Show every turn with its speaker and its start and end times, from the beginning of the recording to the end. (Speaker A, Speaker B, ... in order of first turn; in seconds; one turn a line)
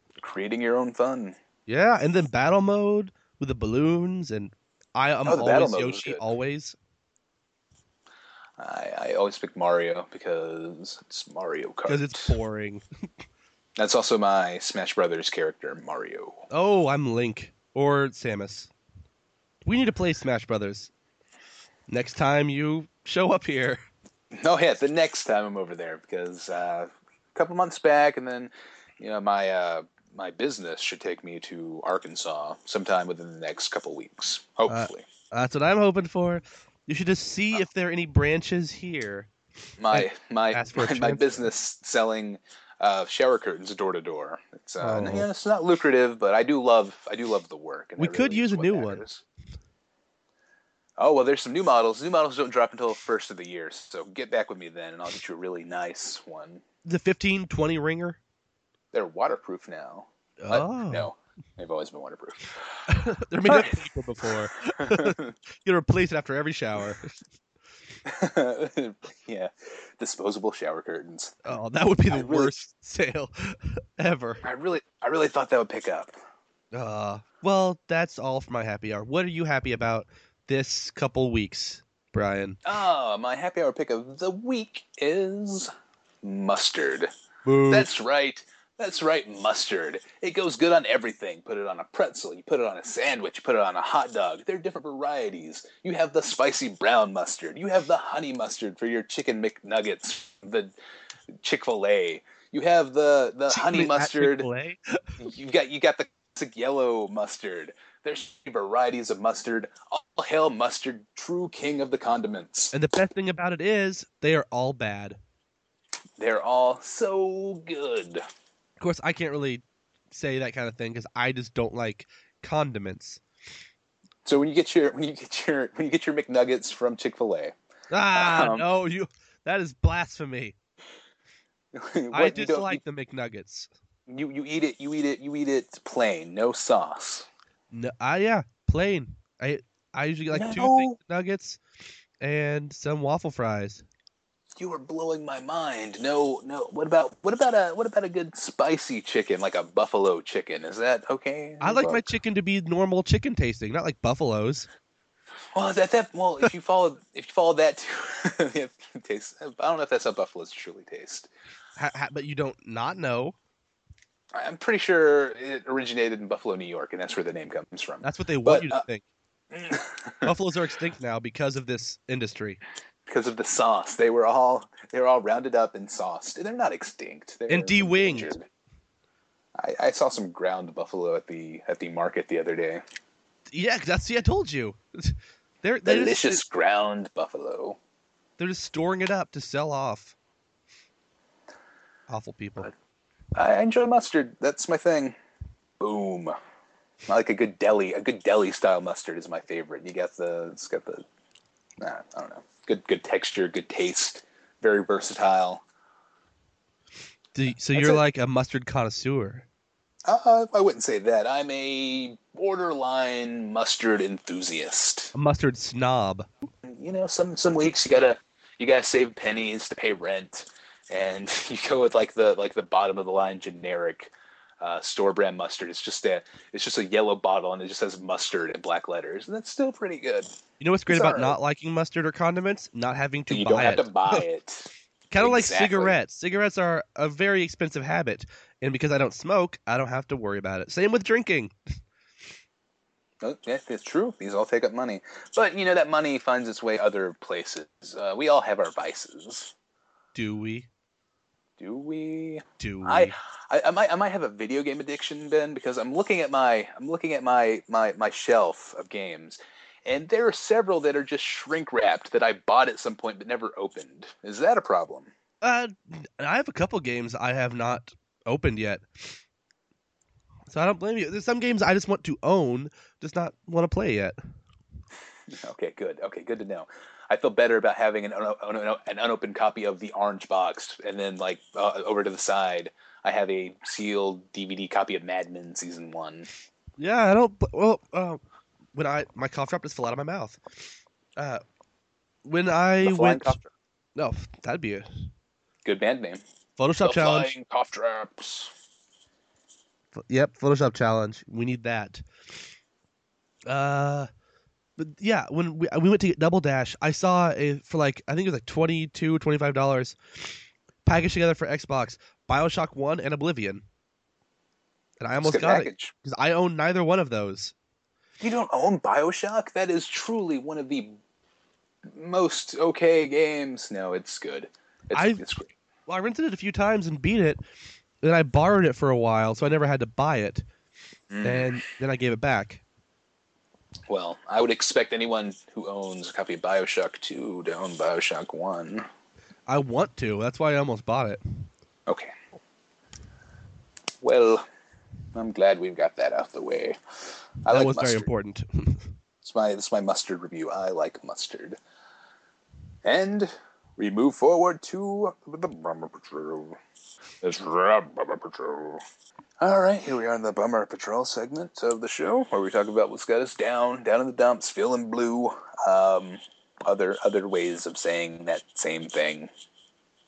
Speaker A: 0.2-1.4
Speaker B: 1.7-6.8
Speaker A: 5.3-6.2
Speaker A: 8.6-12.3
Speaker B: 11.9-12.8
Speaker A: 13.8-16.4
Speaker B: 16.5-18.7
Speaker B: 19.6-20.9
Speaker B: 21.9-23.8
Speaker A: 24.4-35.1
Speaker B: 34.7-39.3
Speaker A: 39.8-49.2
Speaker B: 39.9-41.5
Speaker B: 44.8-45.3
Speaker B: 48.0-49.0
Speaker A: 51.0-56.6
Speaker B: 56.9-58.2
Speaker A: 58.9-62.6
Speaker B: 60.4-61.1
Speaker B: 62.9-67.1
Speaker A: 63.5-65.3
Speaker A: 68.0-71.4
Speaker B: 71.5-74.4
Speaker A: 72.1-72.6
Speaker A: 74.4-76.1
Speaker B: 76.7-82.6
Speaker A: 82.7-85.7
Speaker A: 86.2-87.1
Speaker B: 87.5-87.9
Speaker A: 87.7-100.7
Speaker A: 101.4-104.5
Speaker B: 103.5-105.0
Speaker A: 105.2-112.7
Speaker B: 112.7-115.2
Speaker A: 116.2-118.2
Speaker B: 118.8-123.2
Speaker A: 124.2-127.5
Speaker B: 127.9-130.6
Speaker A: 128.2-128.7
Speaker A: 131.8-132.8
Speaker B: 132.1-133.7
Speaker A: 134.1-137.3
Speaker B: 137.7-141.6
Speaker A: 140.3-141.0
Speaker B: 142.2-143.8
Speaker A: 144.6-152.1
Speaker B: 151.6-154.7
Speaker A: 155.6-161.3
Speaker B: 161.8-163.3
Speaker A: 164.3-168.8
Speaker B: 168.0-169.0
Speaker A: 169.5-170.3
Speaker B: 170.2-172.6
Speaker A: 173.1-178.5
Speaker B: 177.5-178.4
Speaker A: 179.6-182.8
Speaker B: 183.5-186.4
Speaker A: 185.8-187.8
Speaker B: 188.4-190.2
Speaker B: 192.1-192.7
Speaker A: 193.3-195.2
Speaker A: 195.8-196.3
Speaker A: 197.1-201.1
Speaker A: 201.8-205.6
Speaker B: 207.3-209.5
Speaker A: 207.7-208.0
Speaker A: 210.1-215.1
Speaker B: 215.1-216.3
Speaker A: 216.7-230.3
Speaker B: 230.6-234.2
Speaker A: 230.9-231.4
Speaker A: 233.3-236.0
Speaker B: 235.1-241.5
Speaker A: 243.2-249.5
Speaker B: 250.1-250.7
Speaker A: 251.6-265.1
Speaker B: 252.6-253.2
Speaker B: 265.4-269.2
Speaker B: 270.5-274.2
Speaker A: 275.3-286.3
Speaker B: 286.8-288.2
Speaker B: 288.7-290.4
Speaker B: 291.2-291.4
Speaker B: 292.2-293.4
Speaker A: 292.8-293.5
Speaker B: 294.0-295.1
Speaker A: 295.6-296.2
Speaker B: 296.6-297.3
Speaker A: 296.8-298.5
Speaker B: 299.9-302.0
Speaker B: 303.5-304.1
Speaker B: 304.8-313.6
Speaker B: 315.0-317.5
Speaker A: 315.2-315.9
Speaker A: 318.2-321.0
Speaker A: 321.9-325.5
Speaker B: 324.9-325.2
Speaker B: 325.9-327.4
Speaker B: 328.0-330.4
Speaker A: 331.1-331.6
Speaker B: 331.2-332.6
Speaker A: 333.9-338.9
Speaker B: 339.5-341.2
Speaker A: 341.9-342.1
Speaker A: 344.0-344.4
Speaker A: 345.1-346.8
Speaker A: 347.4-348.1
Speaker B: 347.5-348.9
Speaker A: 349.2-351.6
Speaker A: 352.8-356.6
Speaker A: 357.2-358.8
Speaker A: 359.4-369.3